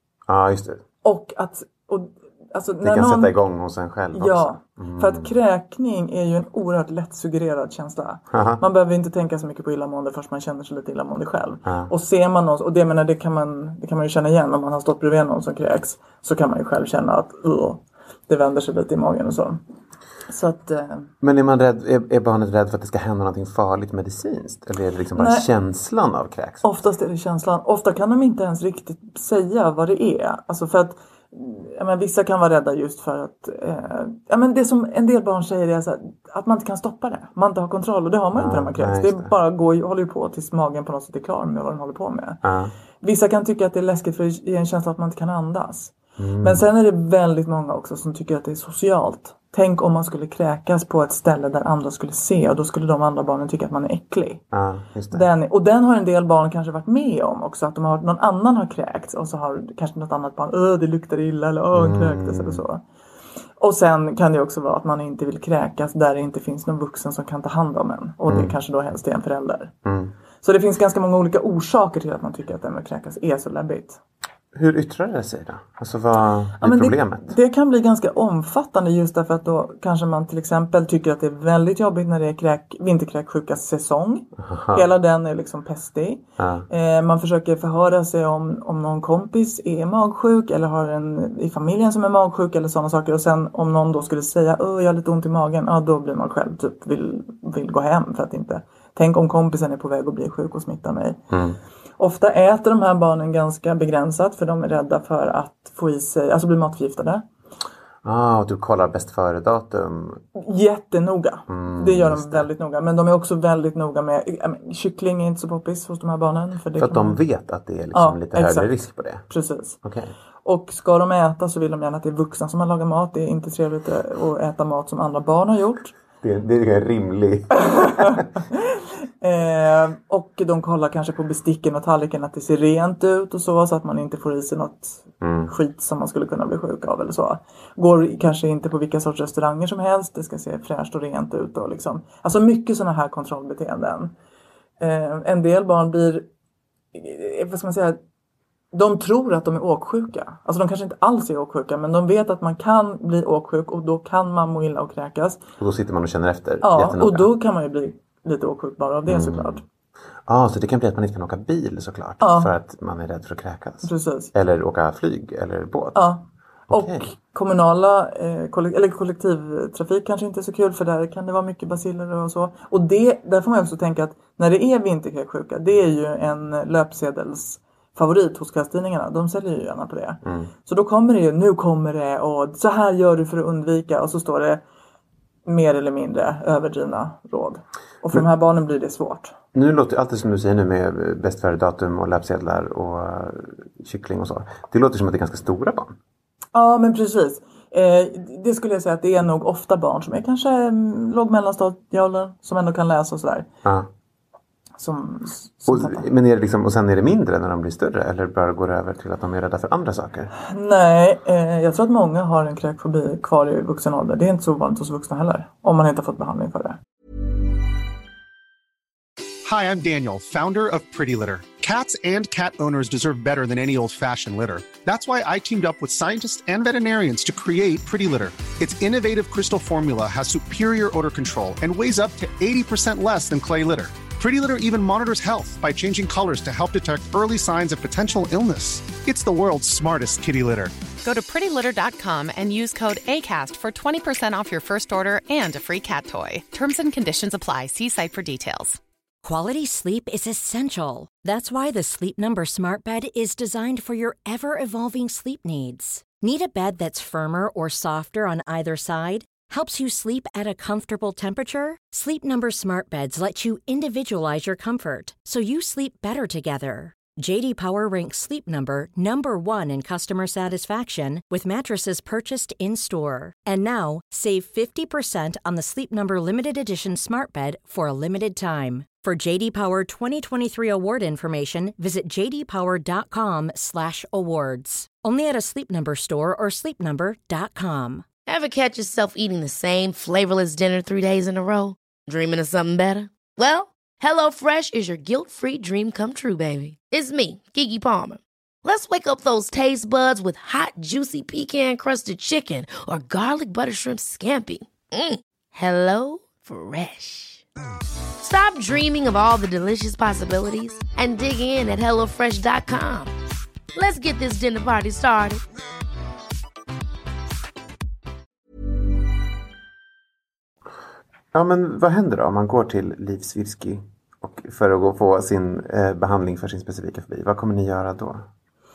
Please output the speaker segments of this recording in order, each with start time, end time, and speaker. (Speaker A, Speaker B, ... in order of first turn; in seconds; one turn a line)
Speaker A: 0.3-0.8
Speaker B: 1.0-3.3
Speaker A: 2.8-5.4
Speaker B: 4.1-19.6
Speaker A: 8.3-8.6
Speaker B: 20.3-21.1
Speaker A: 21.2-26.7
Speaker B: 25.2-25.5
Speaker B: 26.6-42.4
Speaker A: 38.3-39.3
Speaker A: 42.4-42.7
Speaker B: 43.0-54.4
Speaker A: 46.2-46.6
Speaker A: 54.5-55.3
Speaker B: 55.1-62.8
Speaker A: 61.7-62.6
Speaker B: 63.6-69.7
Speaker A: 68.3-68.5
Speaker A: 69.8-70.1
Speaker B: 70.4-74.0
Speaker A: 74.5-77.3
Speaker B: 76.6-101.2
Speaker A: 84.4-84.9
Speaker A: 86.4-86.7
Speaker A: 101.3-101.6
Speaker B: 102.0-107.2
Speaker A: 108.0-110.2
Speaker B: 110.4-117.2
Speaker A: 111.5-112.5
Speaker A: 116.8-119.3
Speaker B: 117.9-118.7
Speaker B: 119.3-119.8
Speaker A: 119.8-120.1
Speaker B: 120.4-126.0
Speaker A: 126.2-128.2
Speaker B: 127.6-144.1
Speaker A: 135.2-135.5
Speaker B: 144.8-146.3
Speaker B: 146.9-148.0
Speaker B: 148.7-155.4
Speaker A: 155.6-157.3
Speaker B: 156.6-159.6
Speaker A: 159.1-159.6
Speaker A: 160.3-166.1
Speaker B: 162.2-162.5
Speaker B: 163.8-164.3
Speaker B: 165.9-184.6
Speaker A: 166.7-167.1
Speaker A: 180.2-180.5
Speaker B: 185.5-189.4
Speaker A: 189.5-196.0
Speaker B: 196.5-203.5
Speaker B: 204.8-206.1
Speaker A: 205.7-210.3
Speaker B: 210.4-216.8
Speaker C: 219.4-240.7
Speaker D: 241.0-248.8
Speaker E: 249.2-288.1
Speaker F: 288.3-307.4
Speaker F: 308.2-313.1
Speaker F: 313.7-315.4
Speaker A: 321.3-328.3